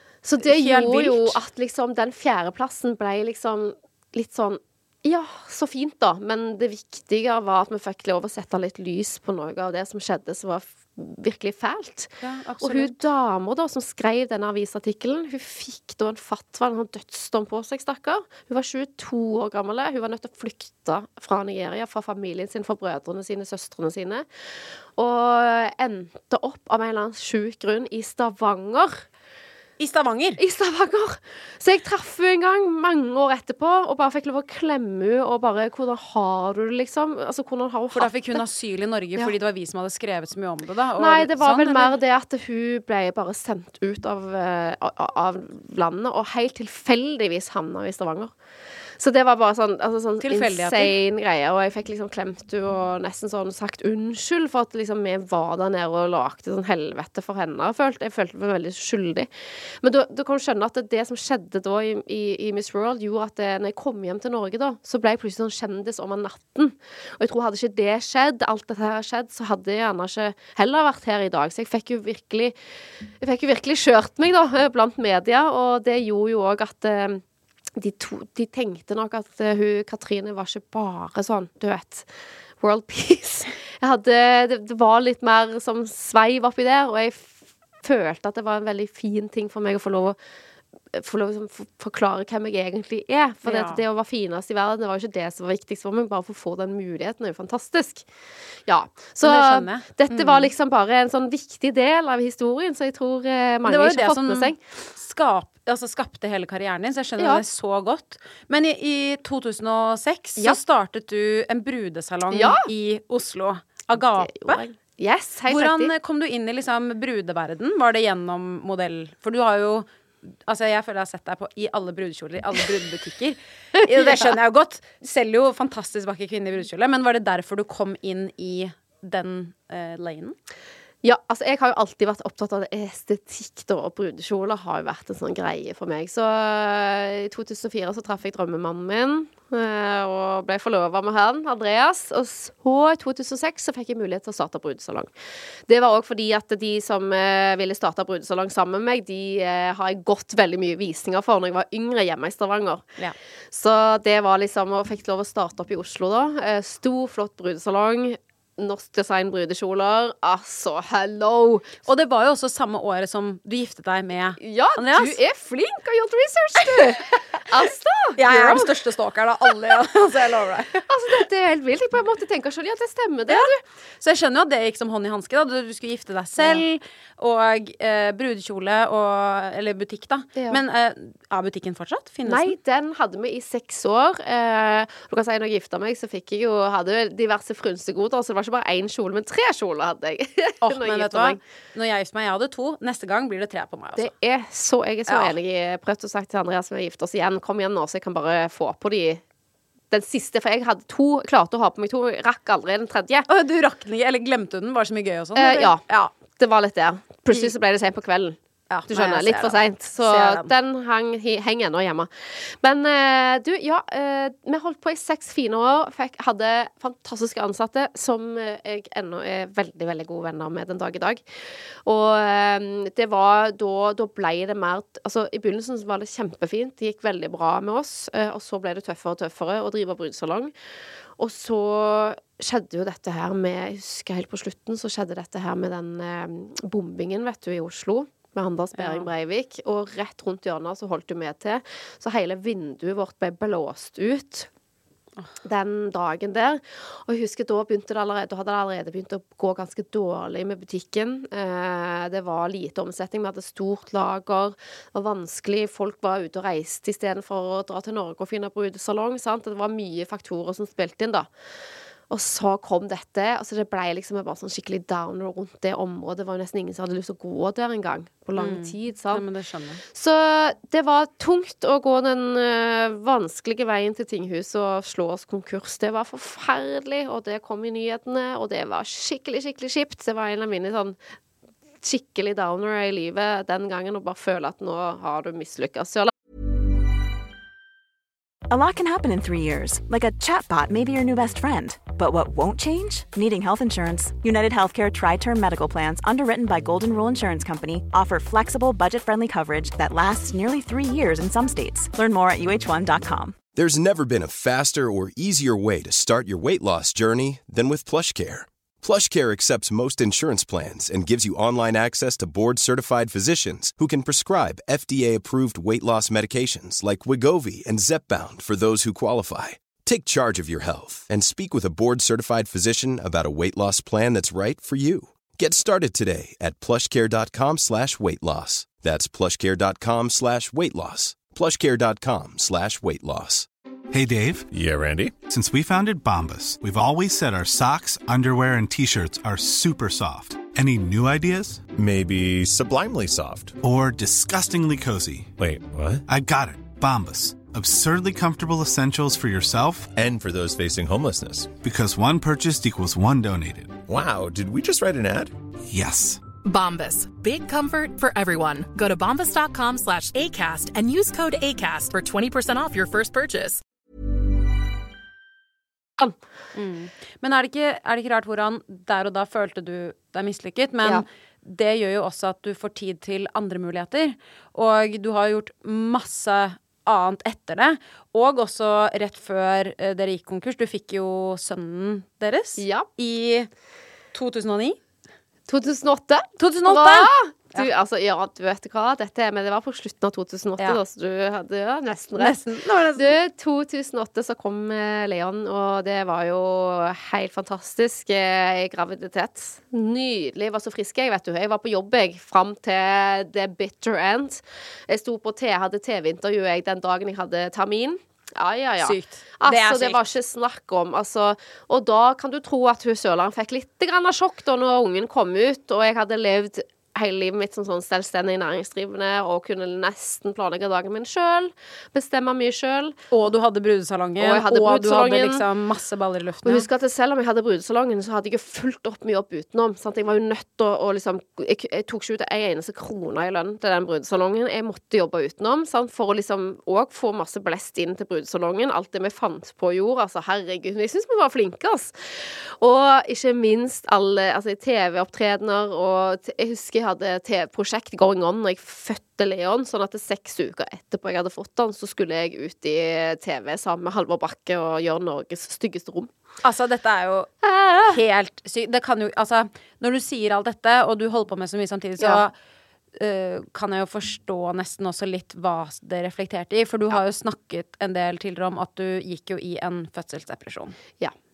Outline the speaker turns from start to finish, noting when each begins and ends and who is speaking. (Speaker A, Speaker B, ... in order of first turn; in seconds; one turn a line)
Speaker A: 0.2-24.2
Speaker B: 0.4-1.4
Speaker B: 12.2-13.0
Speaker A: 25.0-29.0
Speaker B: 29.8-30.4
Speaker A: 30.4-38.4
Speaker B: 37.9-42.0
Speaker A: 41.0-48.3
Speaker A: 49.0-59.3
Speaker B: 50.2-51.0
Speaker A: 59.8-72.5
Speaker A: 73.2-77.2
Speaker A: 77.8-82.1
Speaker A: 82.6-90.2
Speaker A: 90.9-98.0
Speaker B: 93.5-93.8
Speaker A: 98.7-104.6
Speaker B: 99.2-100.5
Speaker B: 103.7-114.6
Speaker A: 112.3-112.7
Speaker A: 113.9-115.9
Speaker B: 115.5-130.4
Speaker A: 123.8-124.3
Speaker A: 131.0-145.1
Speaker A: 145.7-152.9
Speaker A: 153.5-161.8
Speaker B: 161.9-165.2
Speaker A: 164.4-168.7
Speaker B: 166.6-167.0
Speaker B: 168.2-170.9
Speaker A: 170.9-173.6
Speaker B: 173.3-182.6
Speaker A: 176.4-176.6
Speaker A: 180.4-180.6
Speaker A: 182.3-191.4
Speaker B: 190.6-194.1
Speaker A: 194.0-199.2
Speaker B: 195.1-195.3
Speaker A: 199.9-203.3
Speaker B: 203.3-206.1
Speaker A: 205.4-208.4
Speaker B: 208.7-210.5
Speaker A: 208.9-221.2
Speaker A: 221.8-230.5
Speaker A: 231.2-244.5
Speaker B: 238.8-239.1
Speaker A: 245.4-261.3
Speaker A: 262.1-269.2
Speaker B: 268.4-269.8
Speaker A: 269.9-281.0
Speaker A: 281.8-286.1
Speaker C: 288.5-303.4
Speaker D: 303.6-333.5
Speaker E: 333.9-334.5
Speaker F: 334.5-335.2
Speaker E: 335.2-341.7
Speaker F: 341.8-343.6
Speaker E: 343.6-345.3
Speaker F: 345.4-346.0
Speaker E: 346.1-349.9
Speaker F: 350.0-351.5
Speaker E: 351.6-353.8
Speaker F: 353.9-355.4
Speaker E: 355.7-356.2
Speaker G: 356.4-363.6
Speaker B: 366.6-383.5
Speaker A: 382.6-382.9
Speaker B: 384.1-384.8
Speaker A: 385.5-392.4
Speaker B: 386.4-387.7
Speaker B: 392.2-393.1
Speaker A: 392.9-423.1
Speaker B: 408.8-410.0
Speaker B: 423.1-426.7
Speaker A: 424.2-425.4
Speaker A: 426.4-456.1
Speaker B: 456.4-457.3
Speaker A: 457.4-458.0
Speaker B: 457.9-462.3
Speaker B: 463.0-470.8